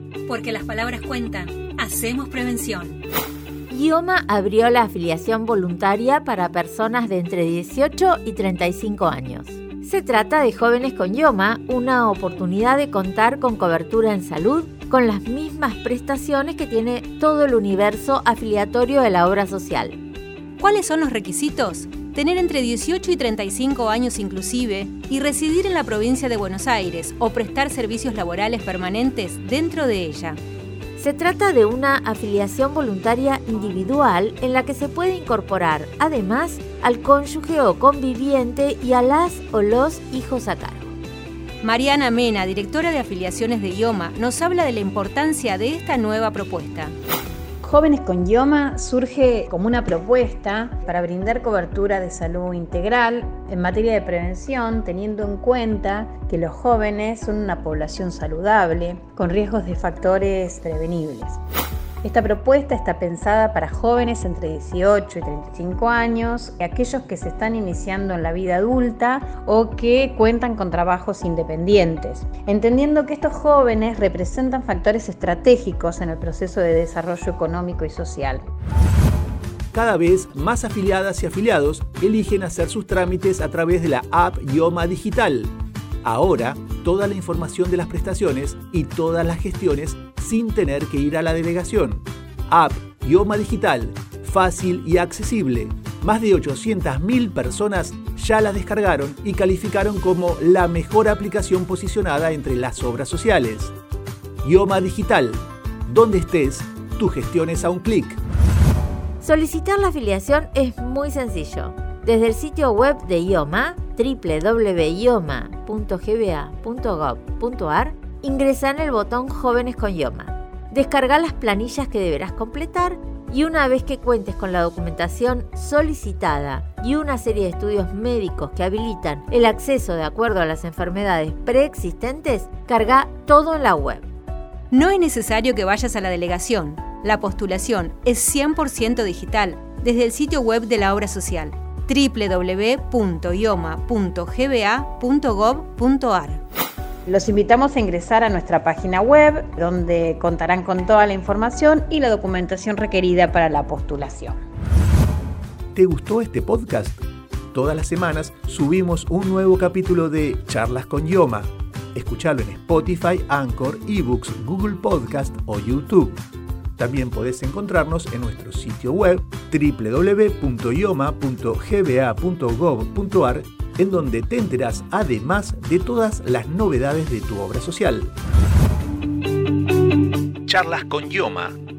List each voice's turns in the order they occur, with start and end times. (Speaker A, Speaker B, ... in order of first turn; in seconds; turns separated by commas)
Speaker A: 0.2-3.0, Speaker B: 3.7-20.0, Speaker A: 20.6-30.4, Speaker B: 31.0-41.0, Speaker A: 41.6-46.9, Speaker C: 47.6-61.4, Speaker C: 62.0-78.5, Speaker D: 79.7-103.7, Speaker D: 104.4-108.2, Speaker B: 109.2-134.1, Speaker A: 134.7-146.4, Speaker C: 147.1-154.4, Speaker D: 155.7-157.0, Speaker D: 157.5-166.2, Speaker D: 166.8-178.1, Speaker D: 180.4-181.6